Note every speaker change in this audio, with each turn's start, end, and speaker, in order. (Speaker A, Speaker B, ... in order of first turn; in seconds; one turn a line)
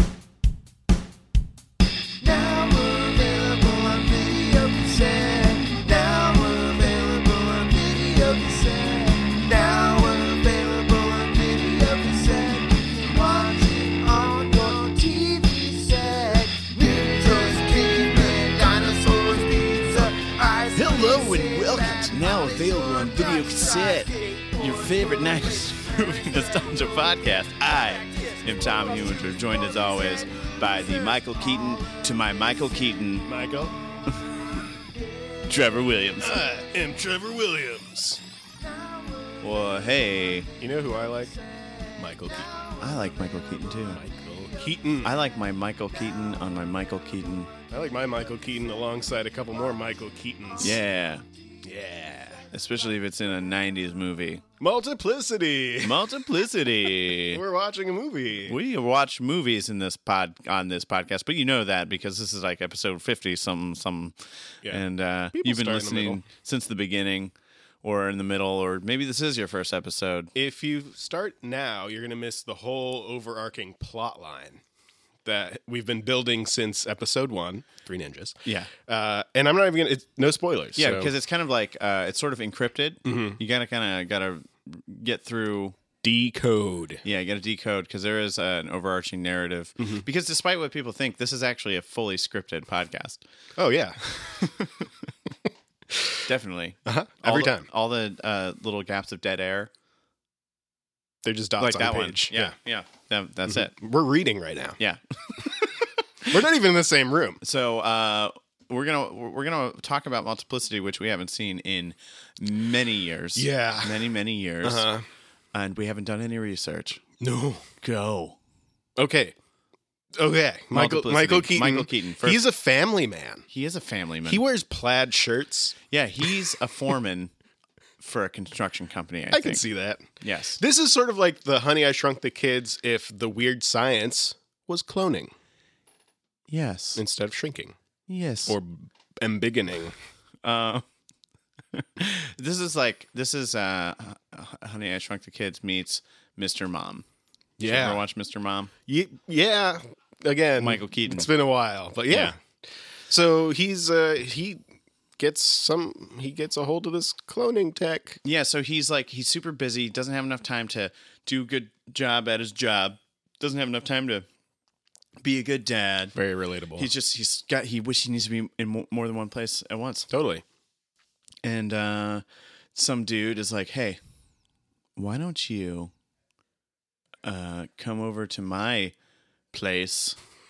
Speaker A: 2.2-32.5
Speaker B: 20.8-33.3
Speaker C: 33.2-33.8
Speaker A: 33.9-35.6
Speaker B: 35.5-36.4
Speaker C: 36.2-38.2
Speaker A: 38.6-39.8
Speaker B: 39.4-40.5
Speaker C: 40.6-41.3
Speaker A: 41.4-43.5
Speaker C: 42.0-42.6
Speaker B: 42.8-44.0
Speaker C: 43.9-45.2
Speaker B: 45.0-47.5
Speaker C: 47.7-50.8
Speaker B: 50.6-51.2
Speaker C: 51.6-52.5
Speaker B: 52.5-54.4
Speaker C: 54.6-56.0
Speaker B: 55.8-57.4
Speaker C: 57.1-58.6
Speaker B: 58.5-70.3
Speaker C: 64.6-66.2
Speaker C: 70.3-74.6
Speaker C: 75.2-81.1
Speaker B: 78.5-78.7
Speaker B: 80.8-85.8
Speaker C: 83.0-83.4
Speaker C: 86.0-87.0
Speaker B: 87.0-93.2
Speaker C: 89.8-90.1
Speaker C: 93.6-94.6
Speaker B: 94.4-94.9
Speaker C: 95.9-96.2
Speaker B: 96.3-99.7
Speaker C: 96.9-97.7
Speaker C: 101.2-102.6
Speaker B: 101.6-103.7
Speaker C: 103.5-104.8
Speaker B: 104.8-106.0
Speaker C: 106.2-107.4
Speaker B: 107.4-114.9
Speaker C: 113.4-114.1
Speaker C: 114.6-115.1
Speaker B: 115.5-117.0
Speaker C: 117.2-117.7
Speaker B: 117.8-118.4
Speaker C: 119.0-119.3
Speaker C: 120.2-123.5
Speaker B: 120.7-122.4
Speaker B: 123.5-124.4
Speaker C: 124.3-125.8
Speaker B: 125.9-127.3
Speaker B: 128.0-129.6
Speaker C: 129.3-135.3
Speaker B: 130.2-130.6
Speaker B: 136.5-137.0
Speaker C: 137.0-137.8
Speaker B: 138.1-138.6
Speaker C: 138.5-140.0
Speaker B: 140.4-140.9
Speaker B: 141.7-147.1
Speaker C: 147.6-148.0
Speaker B: 147.6-148.7
Speaker C: 148.9-154.6
Speaker B: 150.6-151.3
Speaker B: 152.1-152.3
Speaker C: 155.2-158.2
Speaker B: 158.2-164.3
Speaker B: 165.2-166.2
Speaker C: 166.1-166.9
Speaker B: 166.8-170.1
Speaker C: 170.1-170.4
Speaker B: 171.4-172.2
Speaker B: 172.8-174.0
Speaker B: 175.0-175.9
Speaker B: 177.2-178.9
Speaker B: 179.5-180.2